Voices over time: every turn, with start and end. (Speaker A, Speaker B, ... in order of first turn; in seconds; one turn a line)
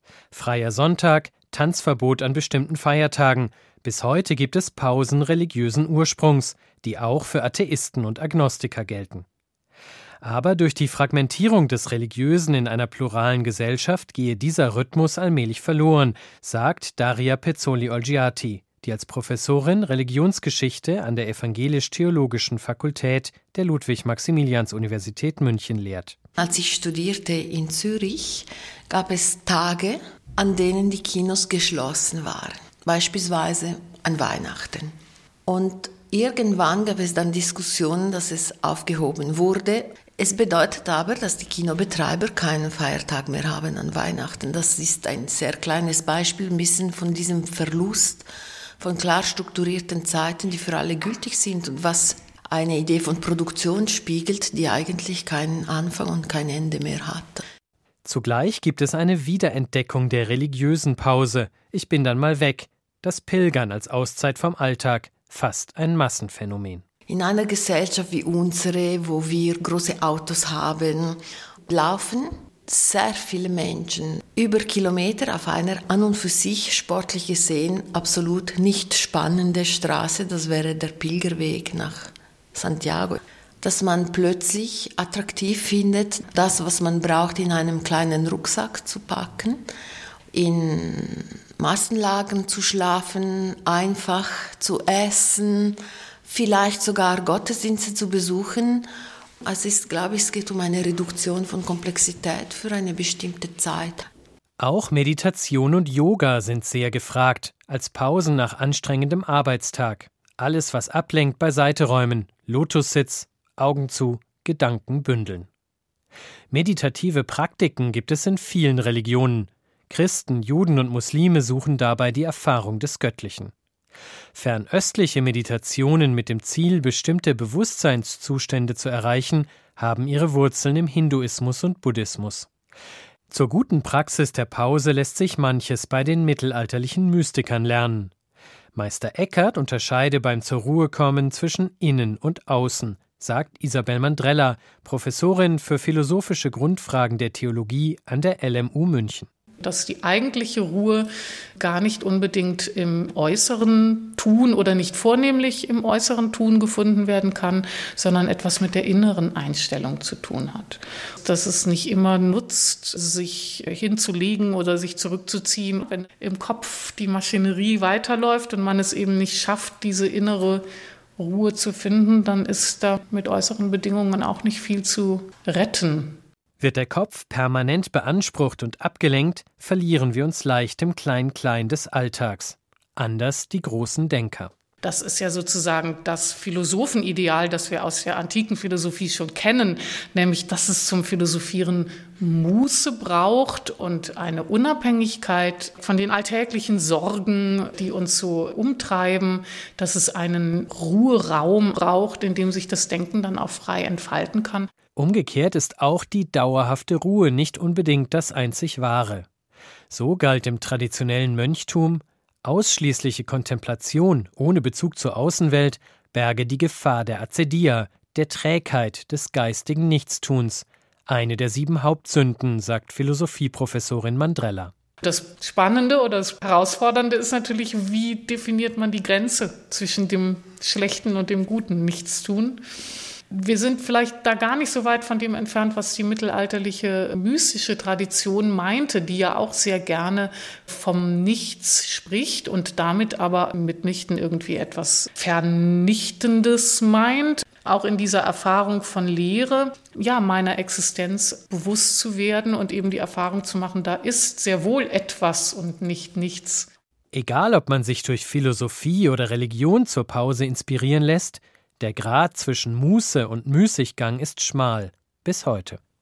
Speaker A: 0.3-9.3
Speaker A: 10.2-26.2
Speaker B: 26.4-34.9
Speaker B: 35.5-48.3
Speaker B: 48.8-57.4
Speaker A: 58.0-66.8
Speaker B: 67.1-89.6
Speaker B: 90.3-98.9
Speaker B: 99.4-104.0
Speaker A: 104.6-115.5
Speaker A: 116.5-123.5
Speaker A: 124.3-132.5
Speaker A: 133.3-138.1
Speaker A: 138.8-149.3
Speaker C: 149.6-151.1
Speaker C: 151.6-170.6
Speaker C: 171.2-176.2
Speaker A: 176.6-184.5
Speaker C: 184.8-204.7
Speaker A: 205.0-209.3
Speaker A: 209.9-224.7
Speaker C: 225.0-232.6
Speaker C: 233.3-256.7
Speaker A: 257.1-265.8